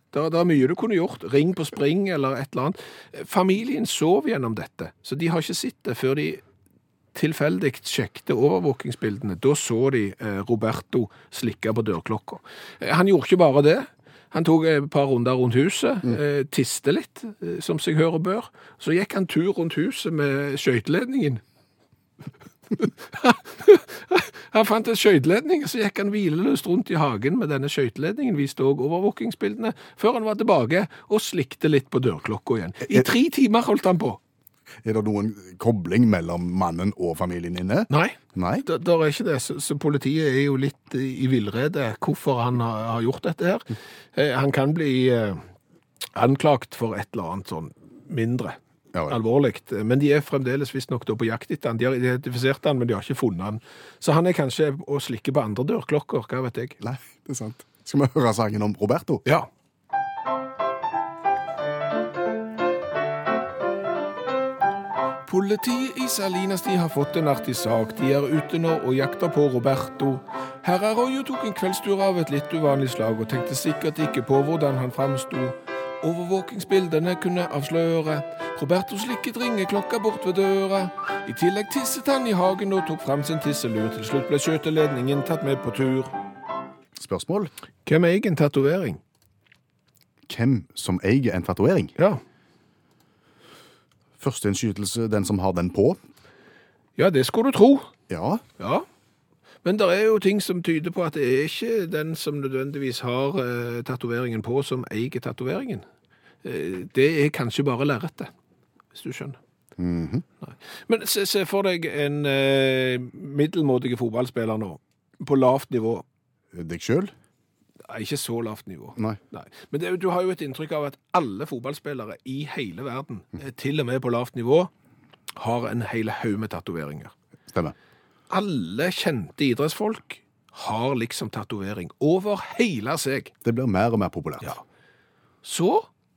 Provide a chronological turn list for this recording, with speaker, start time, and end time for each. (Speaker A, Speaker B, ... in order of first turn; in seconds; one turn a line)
Speaker A: 0.1-6.4
Speaker A: 7.1-21.4
Speaker A: 22.8-34.2
Speaker B: 34.8-38.6
Speaker A: 37.9-45.4
Speaker A: 46.1-48.6
Speaker B: 48.9-49.2
Speaker A: 49.1-56.8
Speaker B: 56.8-59.2
Speaker A: 65.2-86.1
Speaker B: 87.0-87.5
Speaker A: 87.8-89.0
Speaker B: 90.3-91.9
Speaker B: 94.2-96.0
Speaker A: 97.0-97.9
Speaker B: 98.1-98.4
Speaker A: 98.6-98.8
Speaker A: 99.6-105.8
Speaker A: 106.4-108.3
Speaker A: 108.9-109.4
Speaker B: 109.8-110.2
Speaker A: 110.4-116.0
Speaker B: 116.5-117.1
Speaker A: 117.9-124.7
Speaker A: 125.3-127.1
Speaker B: 127.5-127.8
Speaker A: 128.3-133.3
Speaker B: 133.4-134.5
Speaker A: 135.4-135.9